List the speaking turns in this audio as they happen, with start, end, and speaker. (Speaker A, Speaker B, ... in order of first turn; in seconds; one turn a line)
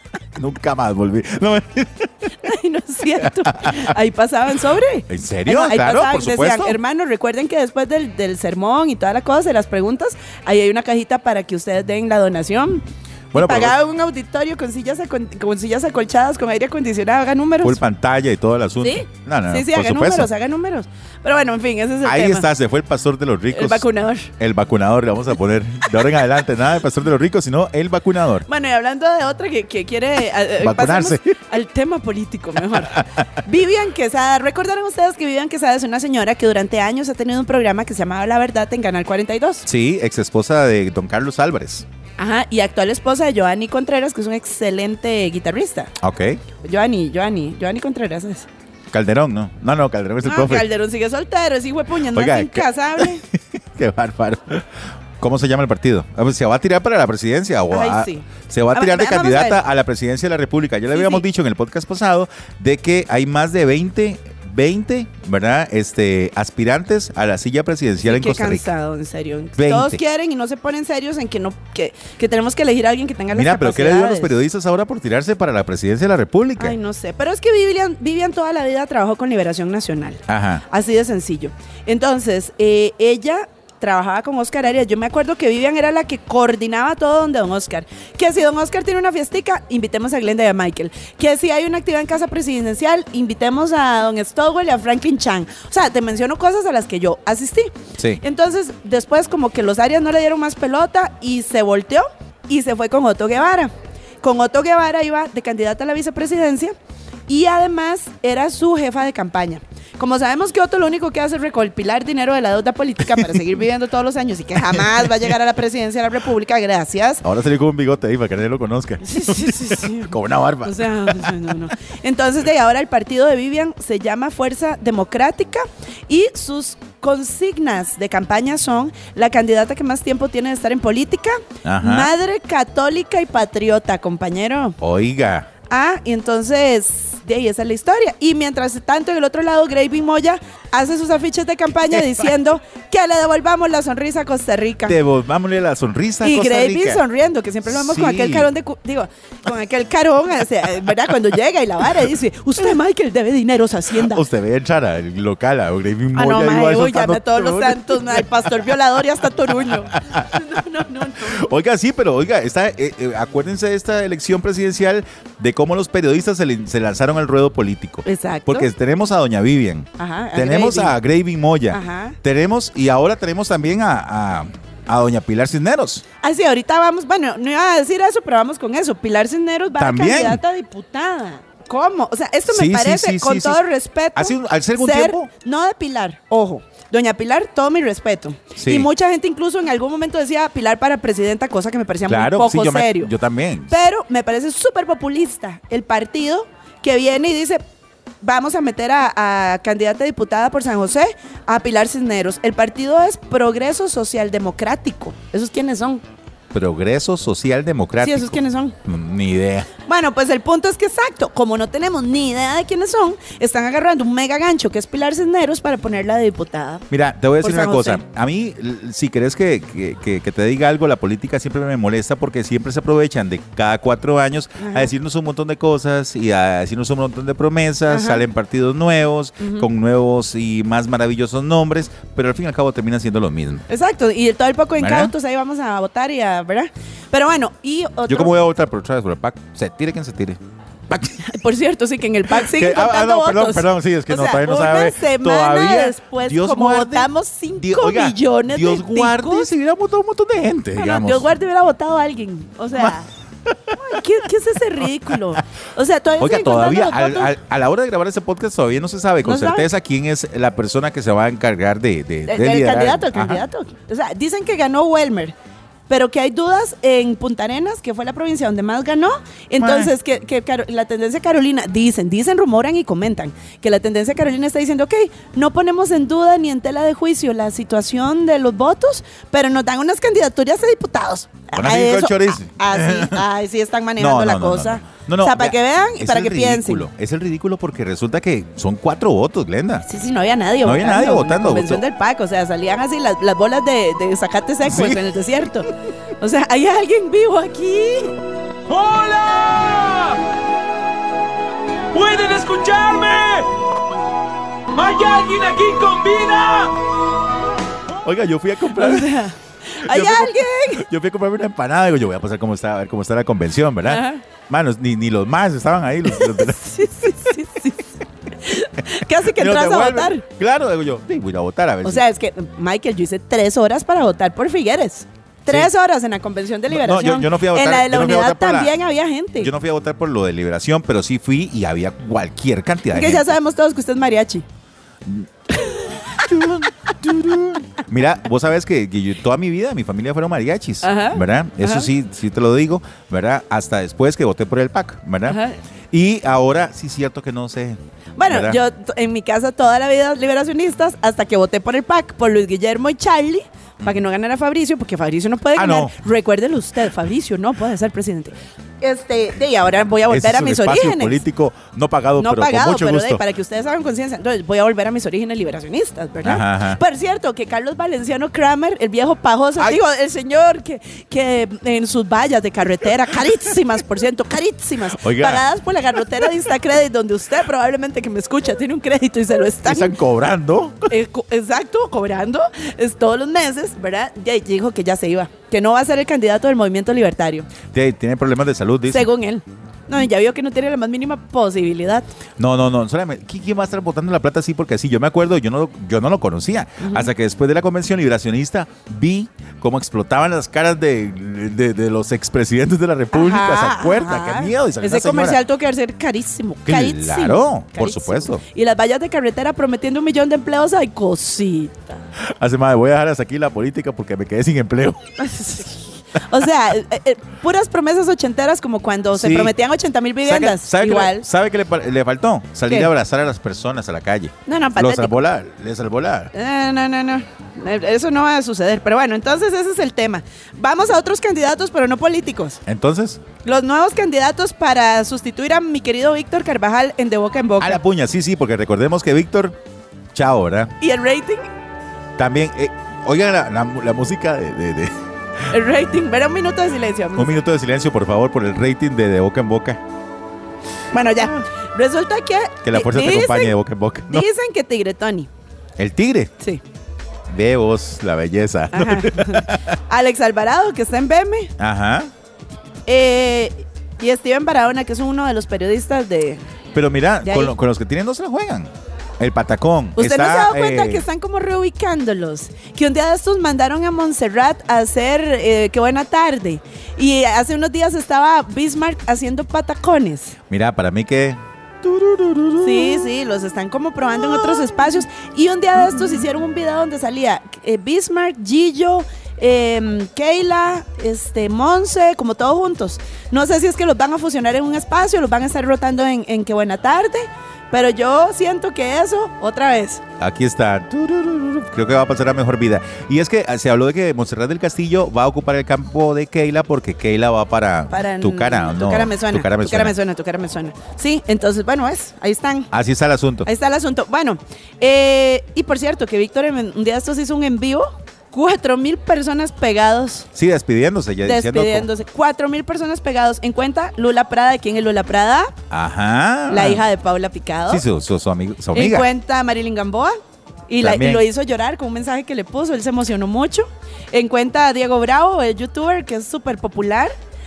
Speaker A: 0.3-2.3
Speaker B: 2.4-17.8
Speaker A: 3.2-3.9
Speaker A: 5.1-6.8
Speaker A: 13.3-13.8
Speaker A: 17.6-20.3
Speaker B: 18.8-22.5
Speaker A: 22.0-28.5
Speaker B: 23.5-24.3
Speaker B: 28.5-39.7
Speaker A: 30.6-31.4
Speaker A: 32.7-33.2
Speaker A: 39.7-41.9
Speaker B: 42.2-45.9
Speaker A: 46.0-46.4
Speaker B: 46.6-48.5
Speaker A: 48.9-50.7
Speaker B: 50.2-53.2
Speaker A: 52.1-68.7
Speaker B: 57.7-59.6
Speaker B: 60.9-61.2
Speaker B: 68.0-74.3
Speaker A: 69.6-70.0
Speaker A: 73.3-76.8
Speaker B: 76.6-106.8
Speaker A: 80.3-80.6
Speaker B: 107.3-117.2
Speaker A: 114.7-115.2
Speaker A: 117.2-121.5
Speaker B: 119.0-134.8
Speaker A: 131.6-132.1
Speaker A: 134.8-135.5
Speaker B: 135.7-145.0
Speaker A: 144.9-147.0
Speaker B: 146.2-154.2
Speaker A: 147.7-148.5
Speaker A: 153.9-158.8
Speaker B: 156.1-161.5
Speaker A: 159.5-160.4
Speaker A: 161.2-176.1
Speaker B: 168.1-168.7
Speaker B: 170.0-170.9
Speaker B: 171.7-172.2
Speaker B: 176.2-193.1
Speaker A: 179.8-180.4
Speaker A: 182.5-183.6
Speaker A: 184.2-185.3
Speaker A: 188.6-188.9
Speaker A: 192.1-193.7
Speaker B: 193.7-197.6
Speaker B: 198.2-206.0
Speaker A: 206.5-209.7
Speaker B: 208.0-208.8
Speaker B: 209.9-216.9
Speaker A: 216.9-233.7
Speaker B: 217.4-218.0
Speaker B: 224.6-224.9
Speaker B: 227.9-228.2
Speaker B: 229.4-229.7
Speaker B: 233.7-238.4
Speaker A: 234.8-235.1
Speaker A: 238.1-241.2
Speaker B: 241.2-249.5
Speaker A: 242.3-251.3
Speaker B: 250.8-253.1
Speaker A: 253.5-254.0
Speaker B: 253.7-257.3
Speaker A: 256.2-263.4
Speaker B: 259.2-259.7
Speaker B: 262.3-265.4
Speaker B: 265.9-286.9
Speaker A: 269.6-269.9
Speaker A: 281.5-283.2
Speaker A: 284.0-289.9
Speaker B: 289.8-298.1
Speaker A: 290.6-291.8
Speaker A: 294.6-295.0
Speaker C: 298.7-300.2
Speaker C: 301.9-303.5
Speaker C: 304.7-306.8
Speaker A: 308.0-309.2
Speaker B: 308.8-310.9
Speaker A: 309.9-316.8
Speaker B: 313.9-314.2
Speaker B: 316.2-317.9
Speaker B: 318.4-320.2
Speaker A: 319.2-322.0
Speaker B: 321.8-329.5
Speaker A: 326.7-328.8
Speaker A: 329.4-333.3
Speaker B: 332.9-334.5
Speaker B: 335.6-336.0
Speaker A: 335.9-345.4
Speaker B: 340.8-341.9
Speaker B: 345.3-345.6
Speaker A: 345.9-348.6
Speaker B: 348.2-361.2
Speaker A: 355.6-355.9
Speaker A: 360.1-363.2
Speaker B: 362.2-379.9
Speaker A: 366.2-366.8
Speaker A: 375.0-375.4
Speaker A: 379.6-380.9
Speaker B: 380.9-387.5
Speaker A: 387.7-389.1
Speaker B: 388.9-392.1
Speaker A: 392.4-405.4
Speaker B: 396.8-397.1
Speaker B: 403.1-412.0
Speaker A: 406.7-408.4
Speaker A: 412.2-415.3
Speaker B: 415.2-421.3
Speaker A: 419.1-419.6
Speaker A: 420.2-426.3
Speaker B: 424.5-425.1
Speaker B: 426.3-432.6
Speaker A: 432.7-433.2
Speaker B: 433.4-437.8
Speaker A: 437.6-439.6
Speaker A: 440.1-440.7
Speaker B: 440.8-441.4
Speaker A: 442.2-445.0
Speaker B: 445.5-447.4
Speaker A: 447.2-449.8
Speaker B: 450.9-453.6
Speaker A: 452.6-454.3
Speaker B: 454.1-455.3
Speaker A: 455.8-456.3
Speaker A: 457.3-459.8
Speaker B: 458.7-461.5
Speaker A: 461.6-462.1
Speaker B: 462.9-466.4
Speaker A: 466.7-471.1
Speaker B: 467.2-467.5
Speaker B: 470.0-480.4
Speaker A: 480.5-483.1
Speaker B: 482.6-500.0
Speaker A: 500.2-509.9
Speaker B: 507.9-512.7
Speaker A: 512.7-513.5
Speaker B: 513.4-520.3
Speaker A: 520.3-521.9
Speaker B: 521.2-525.5
Speaker A: 525.7-526.9
Speaker B: 526.5-527.8
Speaker A: 527.7-529.1
Speaker B: 528.7-530.1
Speaker B: 530.7-537.1
Speaker A: 530.8-531.3